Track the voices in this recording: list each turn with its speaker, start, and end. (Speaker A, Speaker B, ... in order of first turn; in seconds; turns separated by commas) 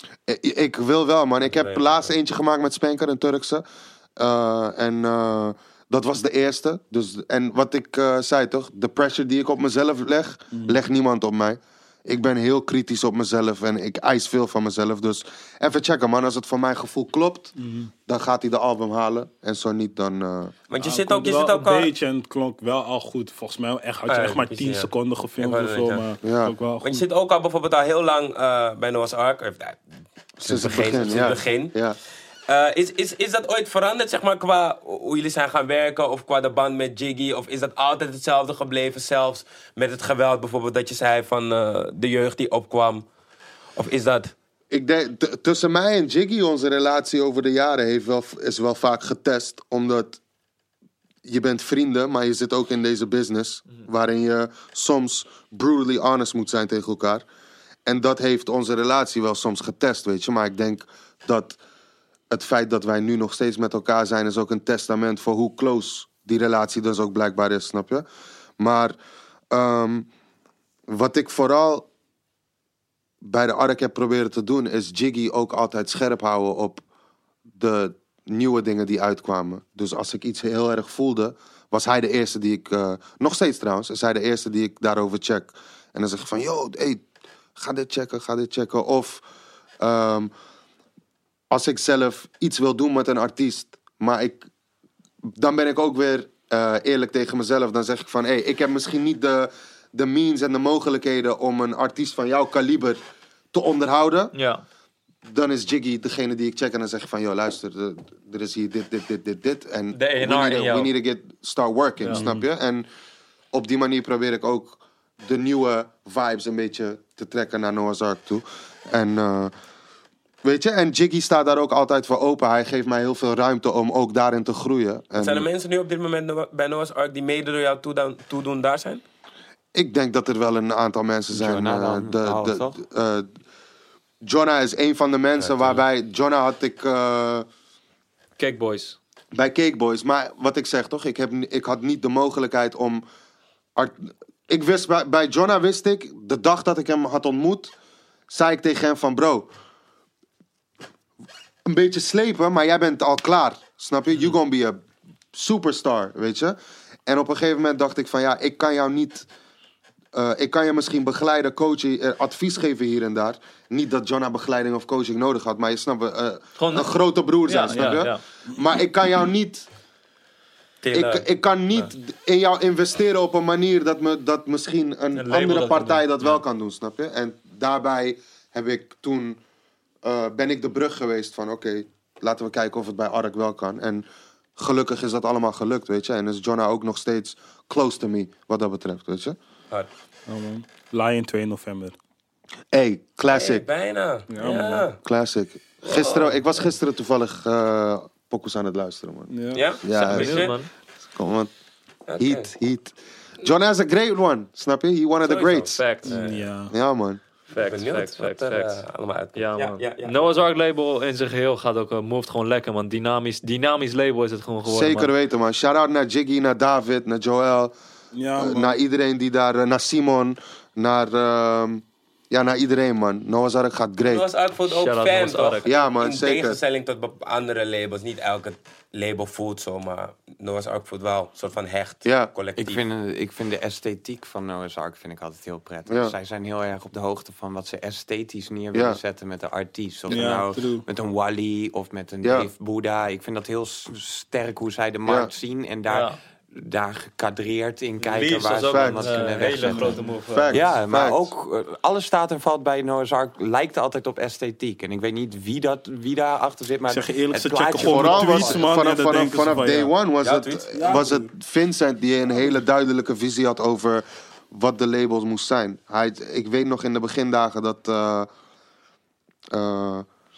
Speaker A: 0.3-3.6, Speaker B: 1.6-1.9, Speaker A: 4.2-17.5, Speaker C: 10.5-10.8, Speaker C: 17.6-17.9, Speaker A: 18.1-20.6, Speaker B: 20.7-21.9, Speaker C: 20.8-27.0, Speaker B: 24.1-26.1, Speaker A: 26.2-26.5, Speaker B: 26.8-29.8, Speaker B: 30.4-31.7, Speaker A: 30.4-32.0, Speaker B: 32.5-43.0, Speaker B: 43.8-44.3, Speaker A: 44.7-50.2, Speaker A: 51.2-57.2, Speaker A: 57.9-61.6, Speaker A: 62.3-68.0, Speaker A: 68.6-68.9, Speaker A: 69.5-70.1, Speaker A: 70.9-71.9, Speaker A: 73.2-76.8, Speaker A: 77.5-87.0, Speaker A: 87.6-89.2, Speaker A: 89.8-90.3, Speaker A: 91.5-94.5, Speaker A: 95.2-103.0, Speaker A: 103.5-104.3, Speaker D: 104.3-104.6, Speaker A: 105.2-112.9, Speaker D: 109.9-110.9, Speaker D: 112.0-112.3, Speaker C: 112.1-112.4, Speaker A: 113.5-119.5, Speaker A: 120.4-125.5, Speaker B: 125.2-129.0, Speaker A: 129.7-133.3, Speaker E: 131.3-132.8, Speaker A: 134.2-137.4, Speaker B: 135.4-135.8, Speaker D: 138.4-139.0, Speaker A: 139.3-143.0, Speaker A: 143.8-147.7, Speaker A: 148.3-149.5, Speaker A: 151.7-154.8, Speaker A: 155.3-159.3, Speaker A: 160.1-169.7, Speaker D: 166.6-166.9, Speaker D: 167.4-168.2, Speaker B: 170.8-171.2, Speaker A: 170.9-179.4, Speaker D: 175.1-176.4, Speaker A: 180.0-184.1, Speaker A: 184.6-189.4, Speaker C: 190.3-191.9, Speaker A: 192.7-193.6, Speaker B: 193.3-195.0, Speaker C: 194.3-194.9, Speaker A: 195.0-199.3, Speaker B: 195.9-196.3, Speaker C: 199.3-199.6, Speaker B: 199.5-200.6, Speaker A: 199.8-200.5, Speaker D: 199.9-200.7, Speaker A: 201.1-201.5, Speaker B: 202.1-202.5, Speaker A: 202.2-205.8, Speaker D: 205.2-206.2, Speaker B: 206.0-206.4, Speaker C: 206.1-206.7, Speaker A: 206.7-207.2, Speaker D: 207.5-208.8, Speaker B: 207.6-210.4, Speaker D: 209.3-215.1, Speaker A: 214.7-217.7, Speaker C: 218.1-218.8, Speaker A: 218.4-224.2, Speaker B: 224.1-232.8, Speaker D: 224.8-225.7, Speaker A: 225.7-226.6, Speaker A: 232.0-232.3, Speaker E: 232.6-250.0, Speaker A: 235.9-236.1, Speaker A: 238.7-239.0, Speaker C: 240.1-240.9, Speaker A: 242.2-242.5, Speaker A: 245.1-245.3, Speaker D: 245.9-246.2, Speaker D: 248.0-250.6, Speaker A: 248.5-249.1, Speaker C: 249.7-250.0, Speaker A: 250.3-251.3, Speaker E: 250.5-258.6, Speaker C: 256.9-259.9, Speaker A: 257.8-268.3, Speaker B: 260.2-261.0, Speaker C: 260.7-261.3, Speaker A: 269.5-270.1